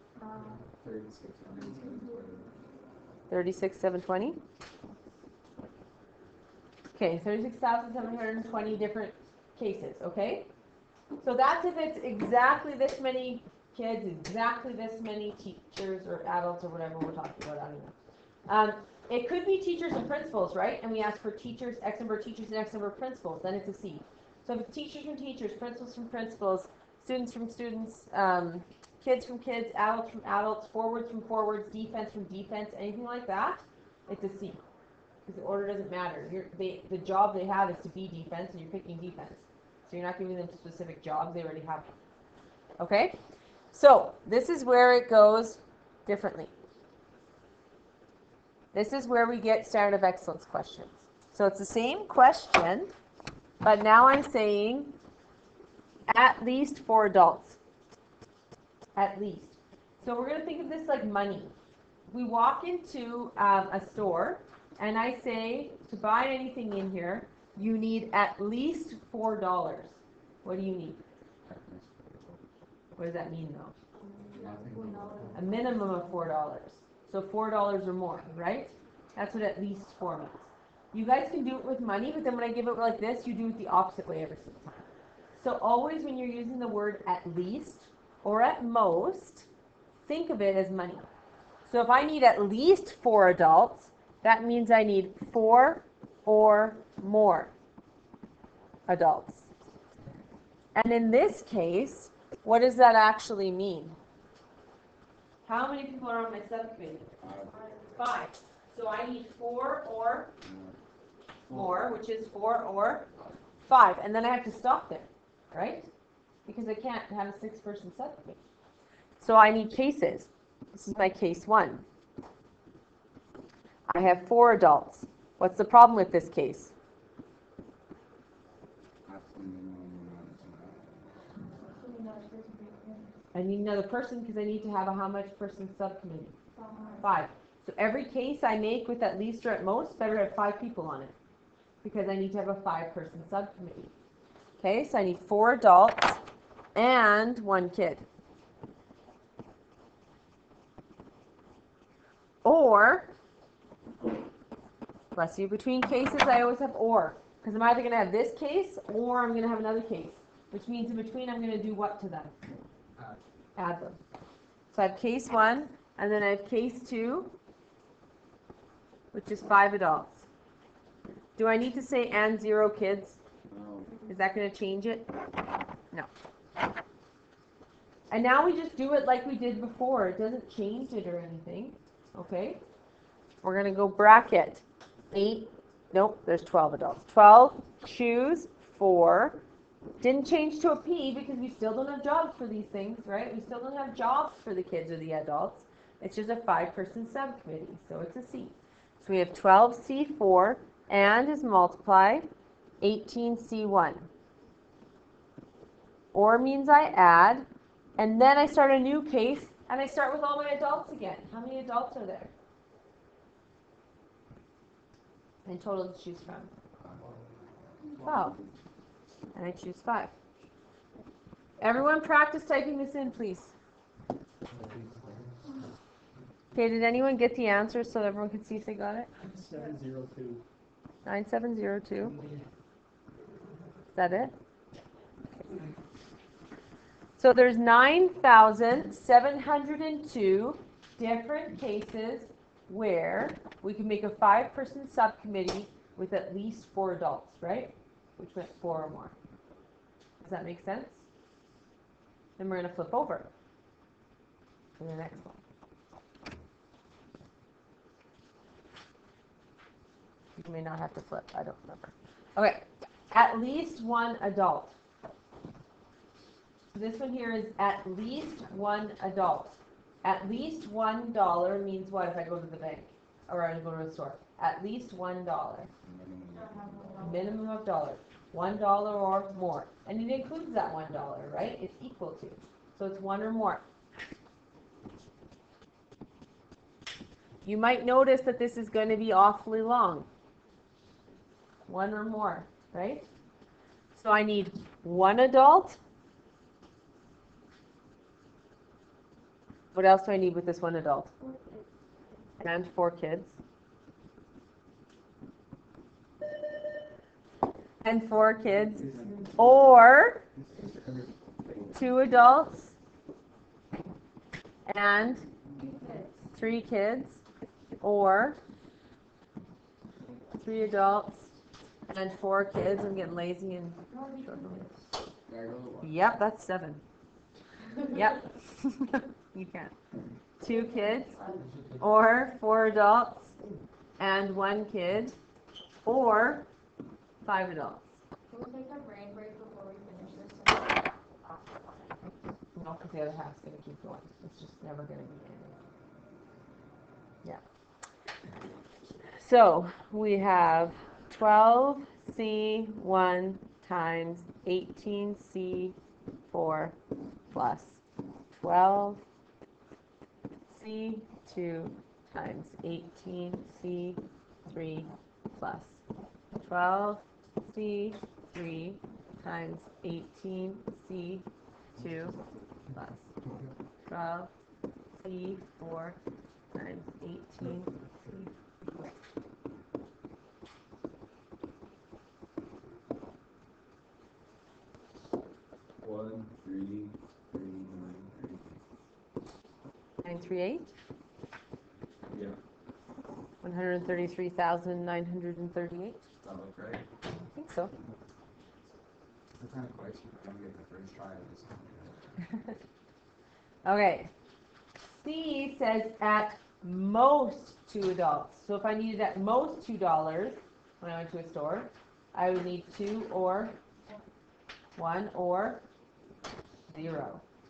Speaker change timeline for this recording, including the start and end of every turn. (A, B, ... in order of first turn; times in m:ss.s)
0:00.2-0:00.6 A
0:00.7-0:02.5 B
0:03.3-0:04.4 C
0:07.0-0:10.5 C
0:11.2-0:18.0 C
0:18.5-0:34.6 C
0:35.3-0:41.9 C
0:42.8-0:43.2 C
0:43.7-0:46.5 C
0:48.7-0:52.9 C
0:53.6-0:55.0 C
0:56.1-0:57.6 C
0:59.0-1:01.5 C
1:02.1-1:11.0 C
1:11.5-1:12.4 D
1:13.0-1:13.7 C
1:14.0-1:16.1 A
1:14.4-1:15.4 D
1:15.3-1:24.8 C
1:25.4-1:29.5 C
1:30.0-1:31.1 C
1:31.6-1:37.5 C
1:38.9-1:39.5 C
1:40.8-1:44.0 C
1:45.4-1:47.2 C
1:47.2-1:47.6 D
1:47.8-1:50.3 C
1:50.4-1:50.8 D
1:51.5-1:53.1 C
1:53.6-1:55.9 C
1:56.5-1:58.4 C
1:59.2-2:01.8 C
2:03.9-2:06.7 C
2:09.1-2:11.1 D
2:11.6-2:13.2 A
2:13.3-2:16.4 C
2:16.6-2:17.2 A
2:17.0-2:21.2 C
2:21.8-2:23.9 C
2:24.6-2:26.2 C
2:26.8-2:28.0 C
2:32.4-2:33.1 C
2:35.1-2:42.3 C
2:43.6-2:44.0 C
2:44.7-2:47.3 C
2:49.1-2:50.3 C
2:51.4-2:53.2 C
2:53.5-2:54.0 D
2:54.1-2:55.1 C
2:58.1-3:02.6 C
3:03.4-3:09.4 C
3:10.0-3:22.3 C
3:22.8-3:24.1 C
3:26.1-3:27.5 C
3:28.0-3:32.3 C
3:35.4-3:36.5 C
3:36.8-3:37.2 D
3:37.8-3:38.5 D
3:38.0-3:38.4 C
3:39.3-3:40.1 C
3:41.6-3:43.5 C
3:44.5-3:45.4 B
3:46.6-3:49.1 C
3:49.2-3:50.4 B
3:51.1-3:52.2 C
3:52.0-3:52.5 B
3:54.0-3:54.3 C
3:57.2-4:09.2 C
4:10.2-4:11.0 C
4:12.4-4:13.3 C
4:14.8-4:15.4 C
4:20.4-4:24.8 C
4:26.7-4:35.7 C
4:35.8-4:37.0 D
4:36.3-4:37.4 A
4:37.0-4:43.6 C
4:47.4-4:50.1 C
4:51.7-4:53.1 C
4:54.0-4:55.8 C
4:59.7-5:01.1 C
5:01.2-5:01.6 A
5:02.4-5:03.4 C
5:07.8-5:10.2 C
5:08.8-5:09.3 B
5:10.4-5:11.7 B
5:11.7-5:12.8 C
5:14.7-5:15.3 C
5:15.5-5:16.3 A
5:16.3-5:17.2 C
5:17.8-5:18.4 C
5:20.4-5:21.3 C
5:21.9-5:24.7 C
5:23.9-5:24.7 A
5:25.3-5:26.0 D
5:25.8-5:26.8 C
5:27.9-5:29.7 C
5:30.4-5:31.2 C
5:30.4-5:31.5 A
5:31.4-5:31.8 B
5:31.8-5:33.3 C
5:34.0-5:35.2 C
5:35.8-5:36.5 C
5:37.2-5:37.9 C
5:38.3-5:41.4 A
5:42.6-5:45.6 C
5:49.2-5:55.8 C
5:56.3-5:56.8 C
5:57.3-5:57.8 C
5:58.4-5:59.0 C
6:00.5-6:05.8 C
6:06.4-6:11.2 C
6:11.8-6:12.2 C
6:12.7-6:13.1 C
6:13.9-6:14.3 C
6:15.0-6:16.0 C
6:16.5-6:18.3 C
6:25.8-6:28.6 B
6:30.0-6:30.7 C
6:32.1-6:32.4 B
6:33.4-6:36.0 C
6:36.2-6:36.9 B
6:37.3-6:37.7 C
6:39.4-6:42.0 B
6:42.3-6:42.5 C
6:43.6-6:44.1 C
6:45.0-6:53.6 C
6:54.8-6:55.6 C
6:56.7-6:57.2 C